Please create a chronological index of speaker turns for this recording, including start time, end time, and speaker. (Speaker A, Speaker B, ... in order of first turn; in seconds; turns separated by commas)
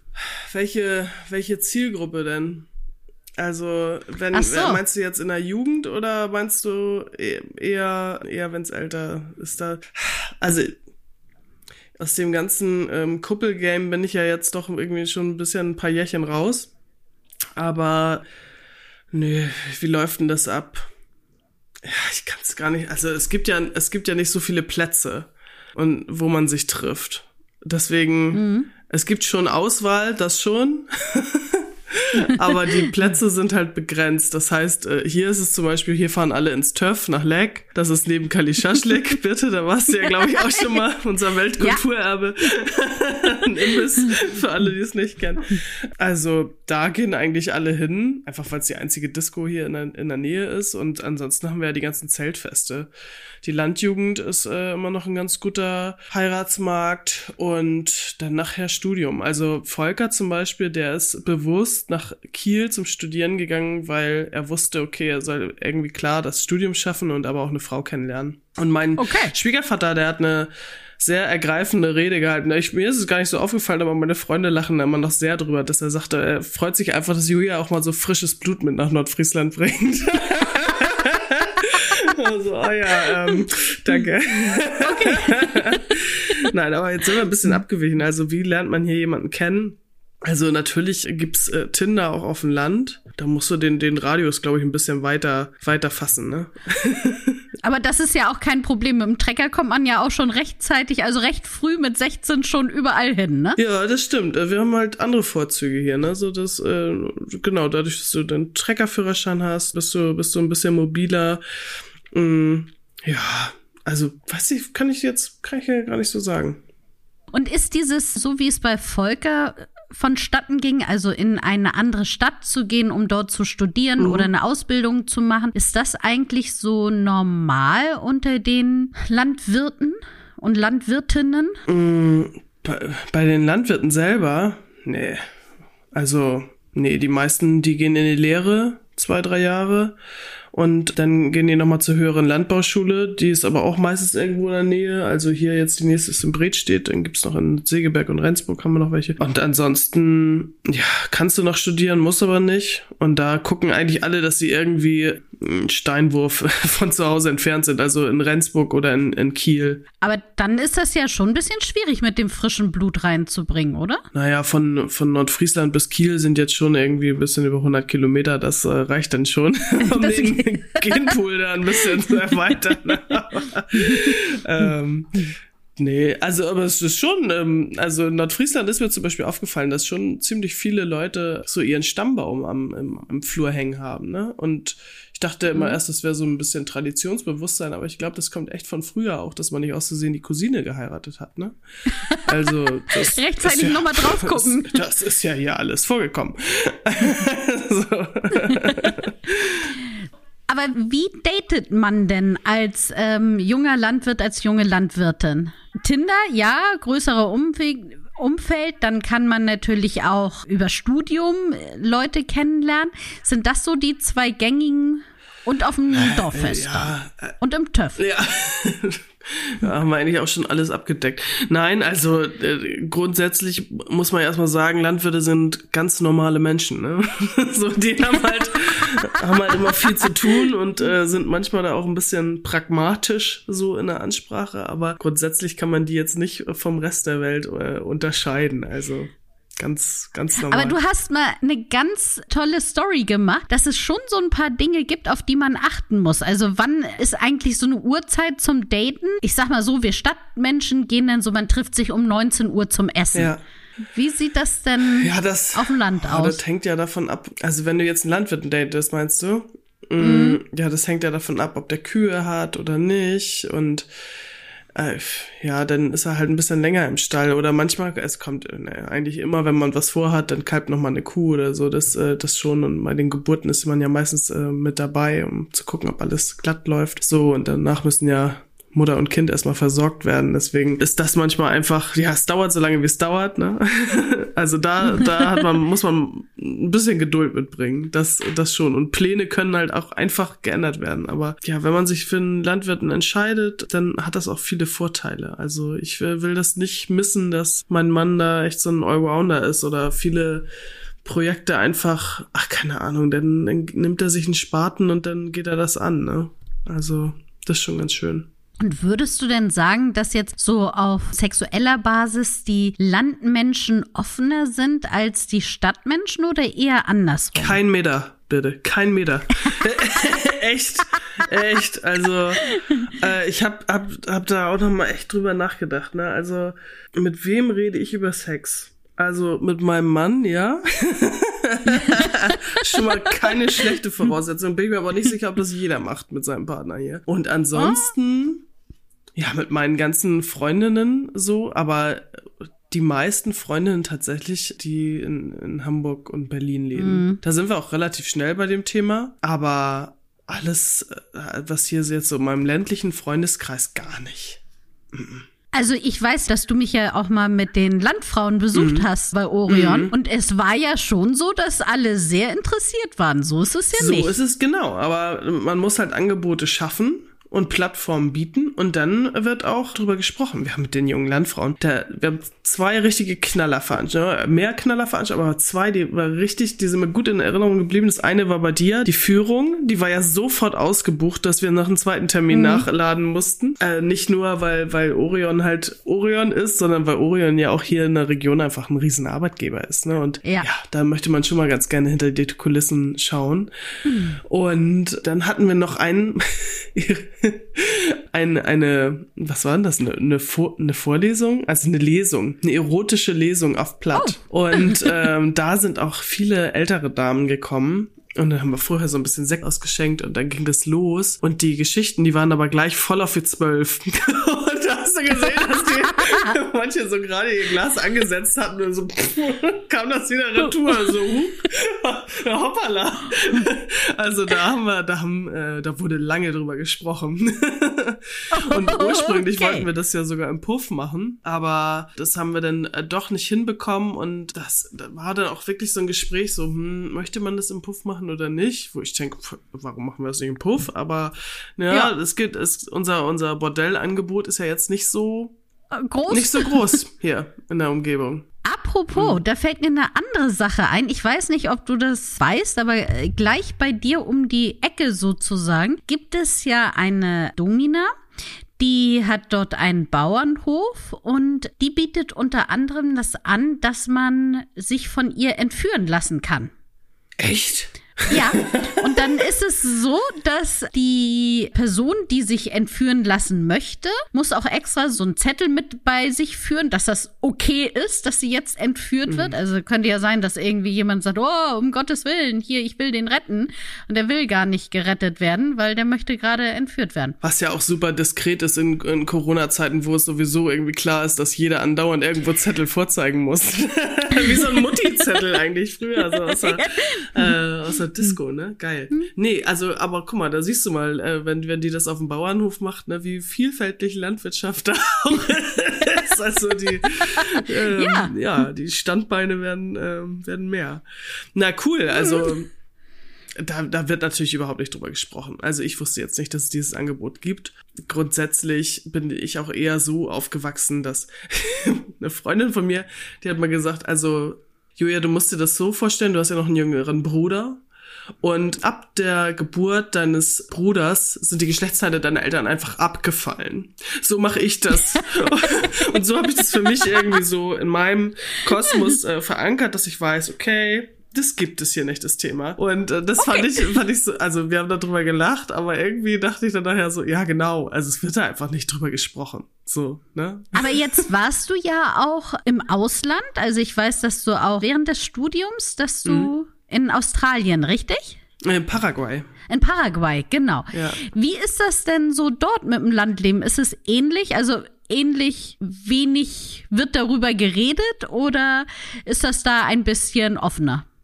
Speaker A: 0.5-2.7, Speaker A: 3.4-10.8, Speaker B: 4.3-4.8, Speaker A: 12.0-16.7, Speaker A: 17.6-18.2, Speaker A: 19.1-20.9, Speaker A: 21.8-52.9, Speaker B: 28.3-28.7, Speaker A: 53.4-97.4, Speaker B: 69.0-69.3, Speaker B: 84.8-85.8, Speaker B: 97.6-103.6, Speaker A: 103.6-111.4, Speaker A: 112.1-116.6, Speaker B: 117.3-131.6, Speaker A: 124.0-124.3, Speaker A: 131.7-135.2, Speaker A: 135.9-139.9, Speaker A: 140.5-159.8, Speaker B: 160.0-164.0, Speaker A: 164.1-191.6, Speaker B: 169.9-171.1, Speaker B: 185.5-185.8, Speaker A: 192.1-199.7, Speaker B: 192.9-194.8, Speaker B: 198.5-198.8, Speaker B: 200.5-218.0, Speaker A: 215.9-217.4, Speaker A: 217.9-240.8, Speaker B: 240.5-253.3, Speaker A: 253.1-253.4, Speaker B: 253.9-256.4, Speaker A: 255.0-263.9, Speaker B: 260.0-260.4, Speaker A: 264.7-300.5, Speaker A: 301.0-308.3, Speaker B: 308.6-317.6, Speaker A: 317.3-338.4, Speaker B: 331.7-332.1, Speaker B: 337.6-337.9, Speaker A: 339.1-354.4, Speaker B: 346.7-347.2, Speaker A: 354.9-355.2, Speaker B: 355.5-364.1, Speaker A: 358.5-358.9, Speaker A: 359.5-359.9, Speaker A: 363.7-393.5, Speaker B: 382.3-382.6, Speaker B: 393.8-394.2, Speaker A: 394.2-445.3, Speaker B: 403.9-404.9, Speaker B: 420.4-421.0, Speaker B: 428.3-429.6, Speaker B: 445.8-446.8, Speaker A: 446.1-448.2, Speaker B: 448.4-457.9, Speaker A: 448.9-449.2, Speaker B: 458.6-466.5, Speaker A: 467.2-468.8, Speaker B: 468.1-487.1, Speaker A: 479.1-479.3, Speaker A: 487.2-510.8, Speaker B: 496.2-497.4, Speaker B: 507.2-508.1, Speaker A: 511.3-512.5, Speaker A: 513.4-527.6, Speaker A: 528.2-551.0, Speaker B: 543.2-543.7, Speaker B: 550.5-558.2, Speaker A: 556.0-556.3, Speaker A: 558.4-559.3, Speaker B: 559.5-570.8, Speaker A: 560.7-561.0